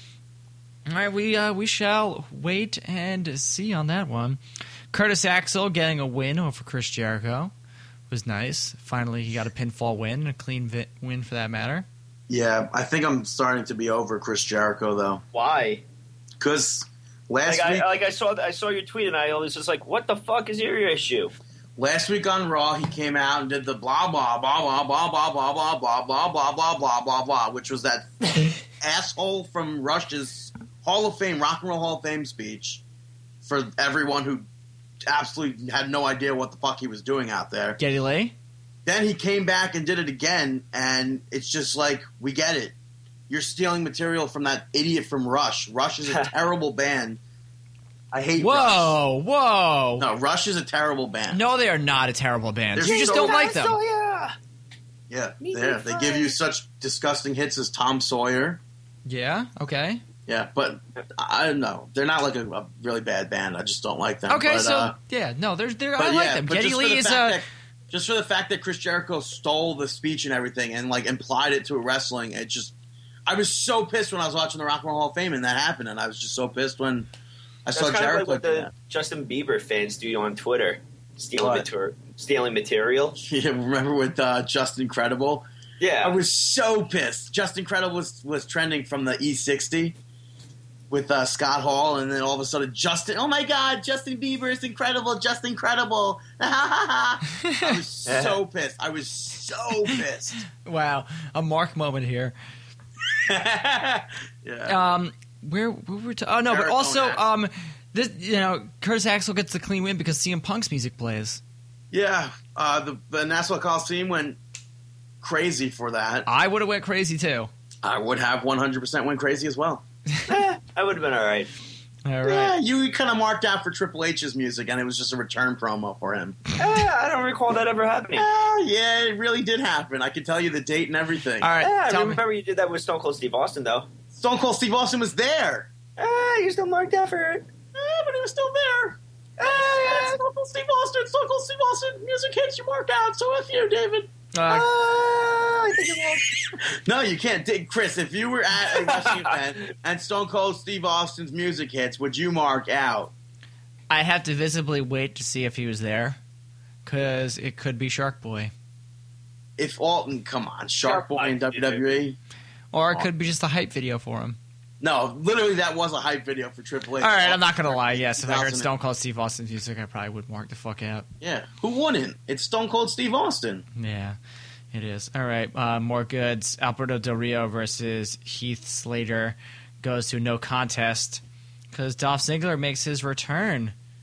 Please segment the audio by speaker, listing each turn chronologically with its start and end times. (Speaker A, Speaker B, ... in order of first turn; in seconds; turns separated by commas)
Speaker A: 0.9-4.4, Speaker A: 4.9-7.5, Speaker A: 8.1-11.9, Speaker B: 12.3-15.2, Speaker C: 15.3-15.8, Speaker B: 16.4-17.9, Speaker C: 17.4-21.3, Speaker B: 21.8-32.8, Speaker B: 33.4-34.5, Speaker B: 35.1-37.8, Speaker A: 37.8-38.3, Speaker B: 38.9-42.7, Speaker B: 43.3-47.2, Speaker B: 48.1-49.0, Speaker A: 48.4-50.1, Speaker B: 50.0-51.4, Speaker A: 51.3-53.8, Speaker B: 52.7-53.4, Speaker C: 52.8-54.3, Speaker B: 55.1-58.6, Speaker C: 55.4-56.3, Speaker A: 59.0-60.0, Speaker B: 60.3-64.9, Speaker A: 64.3-67.4, Speaker B: 66.0-72.7, Speaker B: 73.3-77.1, Speaker B: 77.7-78.7, Speaker C: 77.7-83.2, Speaker B: 81.4-81.7, Speaker B: 83.2-85.5, Speaker C: 85.8-86.2, Speaker B: 86.0-90.0, Speaker B: 90.9-100.4, Speaker A: 97.4-97.8, Speaker C: 98.0-98.3, Speaker A: 100.6-102.3, Speaker B: 103.2-104.8, Speaker A: 104.7-111.4, Speaker B: 106.5-107.2, Speaker B: 111.9-114.4, Speaker B: 115.2-116.3, Speaker A: 116.3-117.5, Speaker B: 117.8-119.8, Speaker C: 120.2-121.5, Speaker A: 122.0-122.5, Speaker B: 122.2-126.4, Speaker C: 126.6-128.3, Speaker B: 128.1-131.5, Speaker A: 131.4-132.2, Speaker C: 131.6-133.9, Speaker B: 134.1-135.7, Speaker C: 136.0-137.5, Speaker B: 137.7-144.1, Speaker C: 139.4-140.2, Speaker A: 144.3-144.7, Speaker C: 144.5-146.5, Speaker B: 146.7-153.1, Speaker C: 148.7-149.4, Speaker A: 153.9-156.2, Speaker A: 156.8-158.5, Speaker B: 159.6-162.2, Speaker C: 160.8-162.0, Speaker A: 162.7-164.4, Speaker B: 164.8-168.7, Speaker A: 167.0-171.1, Speaker B: 171.2-173.7, Speaker A: 173.8-174.2, Speaker A: 174.7-183.7